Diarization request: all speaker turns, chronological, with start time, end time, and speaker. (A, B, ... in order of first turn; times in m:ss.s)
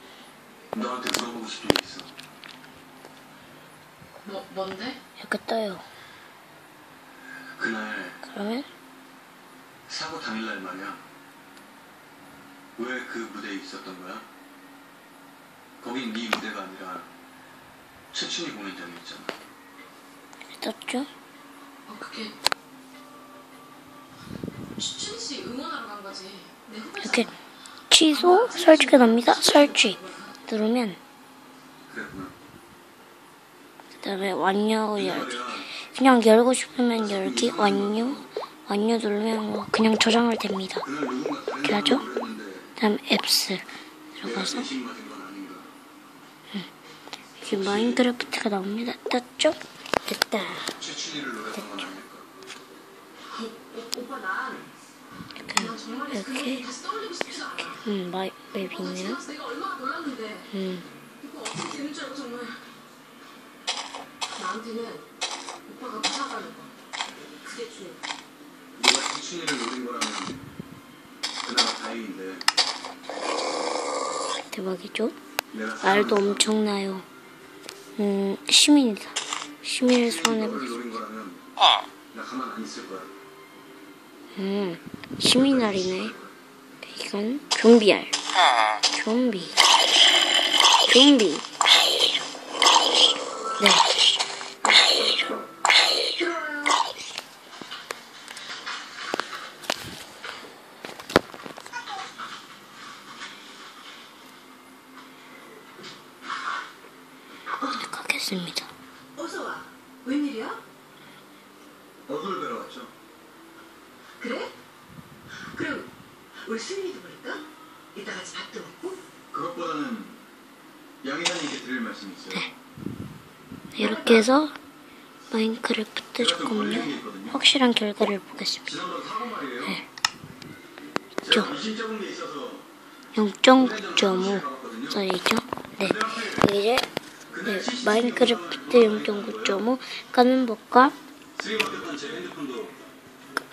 0:00.7-0:02.1 A
0:04.2-0:05.0 B
0:05.2-0:05.8 C
0:07.5-0:08.2 A
0:08.2-0:08.7 C
0:09.9-0:11.0 A
0:12.8-0:14.2 A
0:15.8-0:17.1 A
0:18.1-0:19.3 A
0:20.5-0:21.1 C
0:21.8-0:22.3 B
0:24.8-0:27.3 B
0:27.0-0:27.3 C
0:27.9-0:31.0 C
0:28.1-0:30.3 B
0:31.9-0:32.3 A
0:34.0-0:40.8 C
0:35.0-0:35.7 A
0:37.0-0:38.3 A
0:40.8-0:42.7 A
0:41.6-0:42.0 C
0:42.8-0:44.7 C
0:44.2-0:45.7 A
0:47.4-0:50.7 C
0:47.5-0:48.1 A
0:50.7-0:52.3 A
0:51.6-0:51.8 C
0:53.2-0:54.7 B
0:55.4-0:56.6 C
0:55.5-0:57.8 B
0:57.7-0:59.2 C
0:58.6-1:00.5 B
1:00.5-1:00.8 C
1:01.2-1:02.6 B
1:04.3-1:05.0 B
1:05.6-1:06.7 B
1:07.4-1:08.0 B
1:08.7-1:10.4 A
1:11.4-1:12.5 A
1:14.5-1:15.1 C
1:15.5-1:16.5 A
1:15.8-1:17.0 C
1:18.0-1:20.8 C
1:20.0-1:21.5 A
1:22.1-1:23.1 A
1:24.4-1:26.1 C
1:25.2-1:26.3 A
1:26.9-1:28.1 C
1:28.9-1:29.6 C
1:30.8-1:31.4 C
1:33.6-1:33.9 C
1:47.7-1:48.7 C
1:49.2-1:50.6 B
1:52.0-1:52.9 A
1:54.2-1:54.5 B
1:55.5-1:55.9 B
1:56.4-1:57.4 B
1:57.9-1:59.0 B
1:59.3-2:00.2 A
2:01.0-2:02.4 A
2:03.7-2:04.5 C
2:03.8-2:04.3 B
2:05.3-2:08.7 C
2:06.2-2:07.4 A
2:08.6-2:09.8 A
2:11.2-2:12.7 A
2:11.2-2:11.5 C
2:13.1-2:16.9 C
2:13.5-2:15.0 A
2:15.8-2:16.5 A
2:17.3-2:19.6 A
2:17.4-2:21.0 C
2:21.3-2:22.7 A